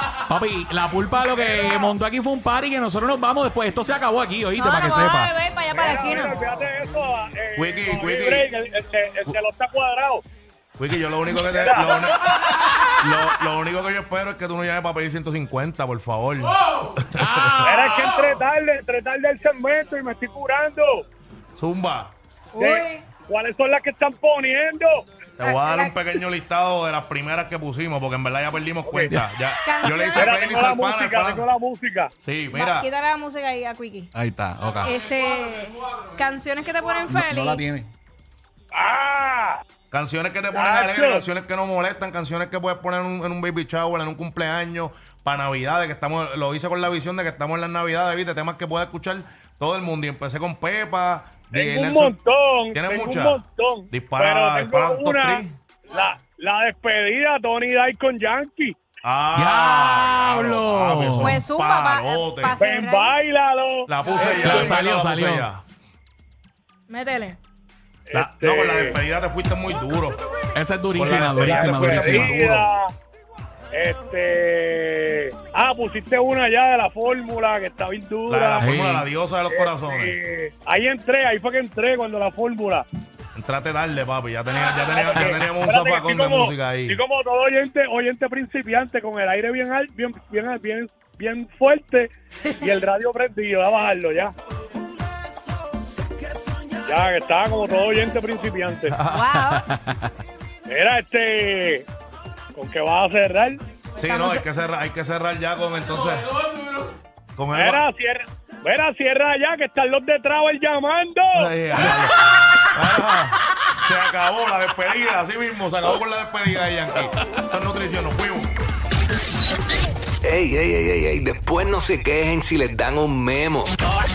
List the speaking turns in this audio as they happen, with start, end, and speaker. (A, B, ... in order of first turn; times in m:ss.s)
0:00.3-0:05.3 A
0:01.4-0:01.9 B
0:04.6-0:06.4 C
0:05.7-0:10.2 B
0:07.6-0:08.5 D
0:10.8-0:12.4 D
0:11.4-0:12.0 B
0:13.0-0:17.5 D
0:17.1-0:18.4 A
0:17.6-0:21.0 B
0:21.5-0:22.1 D
0:22.5-0:23.0 C
0:22.6-0:25.0 B
0:25.4-0:31.5 D
0:25.4-0:26.0 C
0:28.9-0:29.1 B
0:29.6-0:30.4 C
0:30.2-0:32.1 B
0:32.2-0:32.9 D
0:32.5-0:34.1 C
0:34.1-0:34.9 A
0:34.8-0:37.6 C
0:37.1-0:37.9 A
0:38.7-0:39.6 B
0:39.9-0:52.2 D
0:40.5-0:41.2 B
0:51.5-0:58.8 B
0:52.7-0:55.5 D
0:59.0-1:02.6 D
0:59.3-1:01.4 A
1:01.2-1:03.2 C
1:02.6-1:04.8 B
1:03.9-1:05.6 D
1:04.4-1:05.5 A
1:06.9-1:07.4 C
1:08.1-1:09.0 B
1:08.1-1:10.2 D
1:10.5-1:12.4 A
1:10.9-1:12.6 D
1:11.0-1:12.9 B
1:13.7-1:18.7 B
1:18.3-1:20.1 D
1:18.6-1:19.1 A
1:19.5-1:22.8 B
1:23.3-1:27.0 D
1:24.9-1:34.3 B
1:36.8-1:38.9 B
1:38.8-1:39.3 D
1:39.0-1:39.7 C
1:39.4-1:40.1 A
1:40.7-1:41.8 B
1:42.5-1:43.6 B
1:44.0-1:46.4 D
1:44.0-1:44.5 C
1:47.3-1:47.8 D
1:47.5-1:51.9 B
1:51.4-1:58.5 D
2:00.2-2:03.8 E